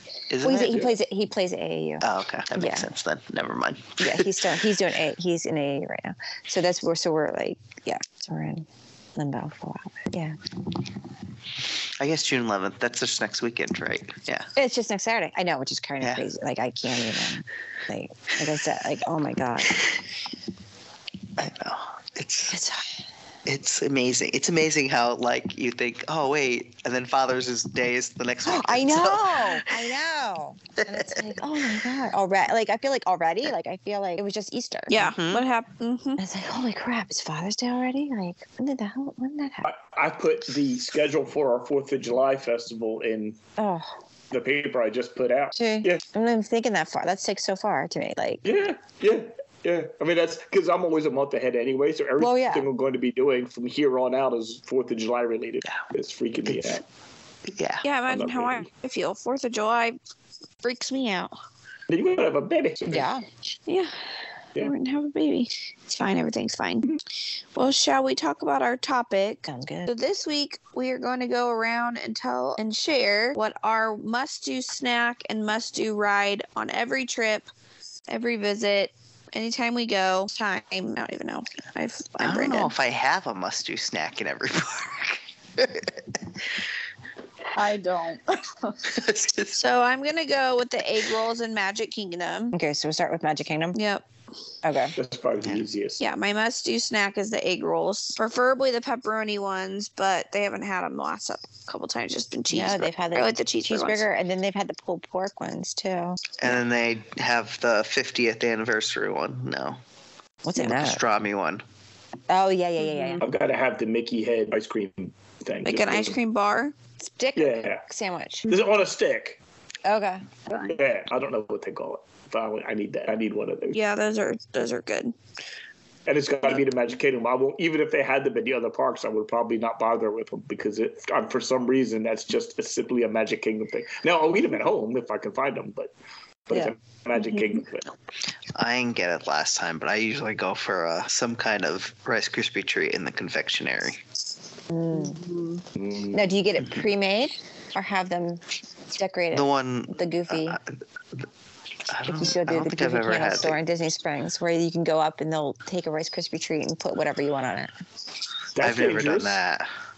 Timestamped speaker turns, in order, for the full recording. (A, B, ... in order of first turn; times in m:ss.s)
0:00.3-0:00.9 A
0:00.4-0:02.9 B
0:02.0-0:04.3 A
0:04.0-0:10.4 B
0:12.0-0:14.5 A
0:14.6-0:19.8 B
0:21.4-0:22.6 A
0:22.5-0:23.0 B
0:23.4-0:29.9 A
0:28.4-0:35.1 B
0:30.8-0:31.3 A
0:34.9-0:36.2 C
0:34.9-0:35.4 A
0:36.2-0:39.7 B
0:39.6-0:43.4 D
0:43.6-0:43.9 B
0:44.3-0:46.0 D
0:45.5-0:48.4 B
0:48.4-0:56.8 D
0:52.2-0:52.7 B
0:56.4-0:56.8 A
0:57.5-0:57.8 A
0:57.8-1:00.0 C
0:58.1-0:58.7 D
1:00.6-1:01.3 C
1:01.9-1:03.1 D
1:02.9-1:03.2 B
1:03.7-1:03.9 C
1:04.6-1:06.9 C
1:07.5-1:17.5 C
1:09.4-1:09.9 B
1:18.1-1:22.7 C
1:22.2-1:26.4 A
1:27.5-1:28.9 E
1:28.8-1:29.6 A
1:29.5-1:32.5 C
1:32.5-1:33.8 B
1:33.7-1:34.0 C
1:34.6-1:35.0 B
1:35.0-1:36.0 D
1:36.0-1:44.0 C
1:42.5-1:46.3 B
1:46.4-1:49.8 A
1:50.4-1:51.0 B
1:50.5-1:51.6 A
1:52.3-1:53.2 B
1:52.8-1:53.2 E
1:53.2-1:56.2 D
1:55.6-1:56.7 C
1:57.0-1:58.5 B
1:57.4-1:57.8 D
1:58.5-1:59.4 D
1:59.8-2:00.2 B
2:00.5-2:00.8 E
2:00.6-2:03.8 D
2:03.7-2:05.1 C
2:06.0-2:15.9 D
2:16.5-2:17.9 D
2:18.5-2:24.0 A
2:24.7-2:25.2 B
2:24.9-2:25.6 E
2:25.8-2:26.2 D
2:26.1-2:28.4 B
2:28.9-2:30.6 B
2:29.3-2:31.3 A
2:31.9-2:33.6 A
2:32.1-2:37.7 B
2:38.6-2:39.4 D
2:38.6-2:39.7 A